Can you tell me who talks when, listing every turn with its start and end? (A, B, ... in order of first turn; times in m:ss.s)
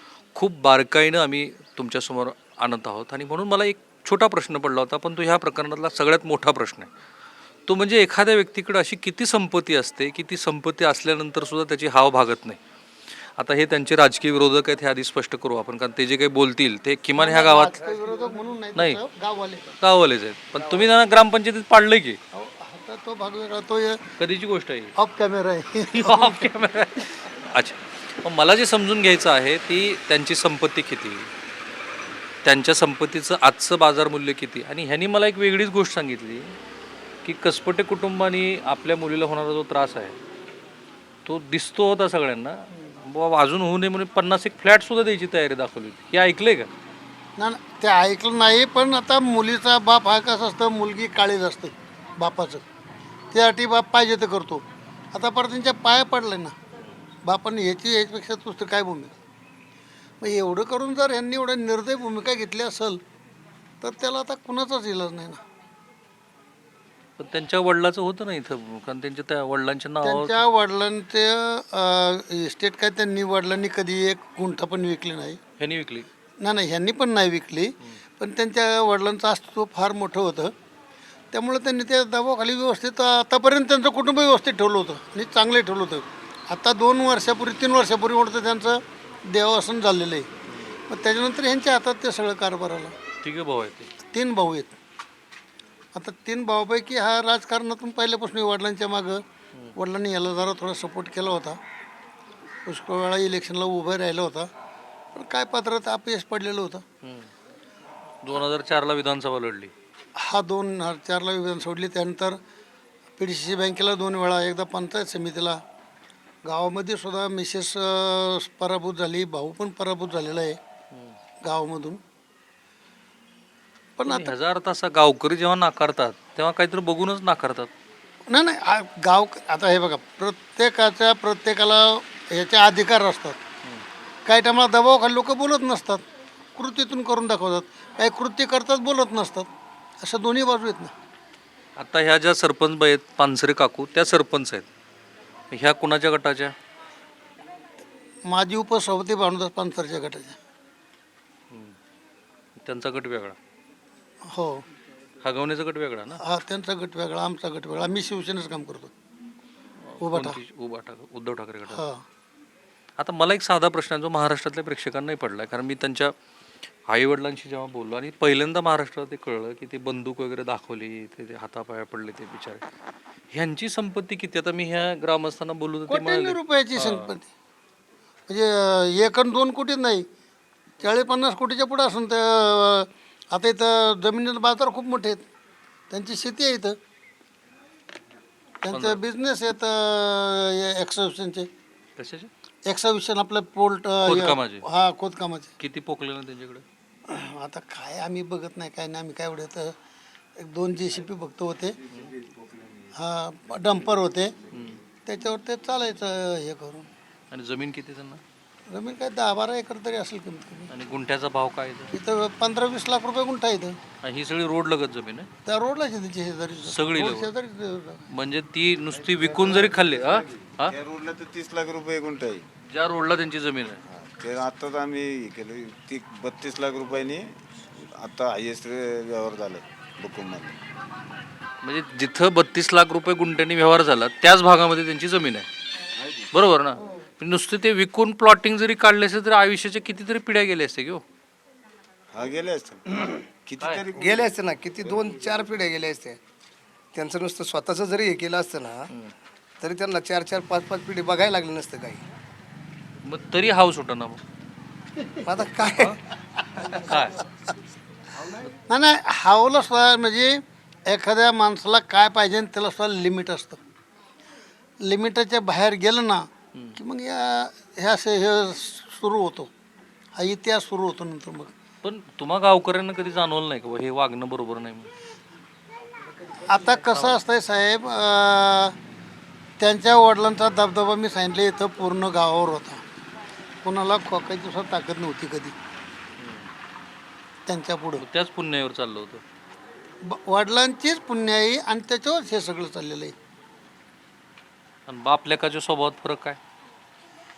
0:00.4-0:06.9 A
0:07.7-0:12.6 A
0:13.4-0:17.8 A
0:17.2-0:19.8 B
0:18.8-0:19.0 A
0:19.8-0:22.2 A
0:22.3-0:24.0 B
0:24.2-0:25.0 A
0:25.0-0:26.6 B
0:26.0-0:31.3 A
0:32.4-0:36.6 A
0:37.2-0:40.2 A
0:41.2-0:46.7 A
0:42.7-0:43.0 B
0:47.4-0:52.6 B
0:53.3-0:56.5 B
0:57.2-0:59.1 B
1:00.2-1:03.0 B
1:03.8-1:05.4 B
1:07.2-1:10.4 A
1:10.0-1:15.4 B
1:15.6-1:16.1 A
1:16.4-1:20.5 B
1:21.3-1:30.3 B
1:30.9-1:32.9 B
1:33.2-1:33.9 A
1:34.1-1:34.8 B
1:35.9-1:39.2 B
1:39.8-1:41.6 B
1:42.7-1:44.5 B
1:45.2-1:46.8 B
1:47.0-1:47.3 A
1:48.2-1:49.7 A
1:50.2-1:52.4 B
1:53.2-1:55.6 B
1:56.4-2:00.6 B
2:01.4-2:02.0 B
2:04.0-2:04.4 B
2:04.1-2:07.7 A
2:08.3-2:13.4 B
2:14.3-2:16.0 B
2:16.6-2:19.5 B
2:20.0-2:20.9 B
2:21.8-2:24.7 A
2:25.5-2:26.5 A
2:28.3-2:30.4 B
2:31.5-2:31.8 A
2:32.6-2:33.4 A
2:34.2-2:34.6 B
2:35.2-2:36.2 A
2:36.2-2:38.9 B
2:39.8-2:41.8 A
2:40.0-2:40.4 B
2:41.7-2:42.0 B
2:43.0-2:46.1 A
2:46.9-2:52.6 A
2:53.3-2:57.1 A
2:55.9-2:57.3 B
2:58.3-3:00.1 B
3:00.8-3:05.2 B
3:05.9-3:06.8 B
3:08.6-3:11.5 B
3:08.7-3:09.0 A
3:12.0-3:12.3 A
3:12.7-3:15.5 B
3:14.0-3:14.7 A
3:15.6-3:16.6 A
3:17.1-3:19.8 B
3:20.4-3:21.8 B
3:21.9-3:22.9 C
3:23.0-3:24.3 B
3:24.5-3:24.8 A
3:25.1-3:26.9 B
3:27.3-3:28.2 A
3:28.7-3:30.7 B
3:30.7-3:31.9 A
3:31.9-3:33.8 B
3:34.0-3:35.3 A
3:35.4-3:38.0 B
3:36.6-3:37.3 A
3:38.1-3:40.8 A
3:38.9-3:42.4 C
3:42.7-3:43.8 A
3:43.9-3:50.6 C
3:51.6-3:55.5 A
3:56.0-3:56.3 C
3:56.3-4:01.0 A
4:02.1-4:05.4 C
4:03.9-4:06.2 D
4:06.9-4:08.9 D
4:09.6-4:12.1 D
4:13.0-4:14.2 A
4:15.2-4:16.0 D
4:15.7-4:16.0 A
4:16.6-4:17.2 A
4:18.7-4:23.6 B
4:24.8-4:29.5 B
4:30.2-4:31.5 B
4:31.8-4:34.9 A
4:36.4-4:38.8 B
4:36.9-4:37.2 A
4:39.6-4:42.8 B
4:43.6-4:45.6 B
4:46.2-4:46.5 A
4:47.5-4:48.0 B
4:48.0-4:49.2 A
4:50.0-4:53.2 B
4:54.9-4:56.4 A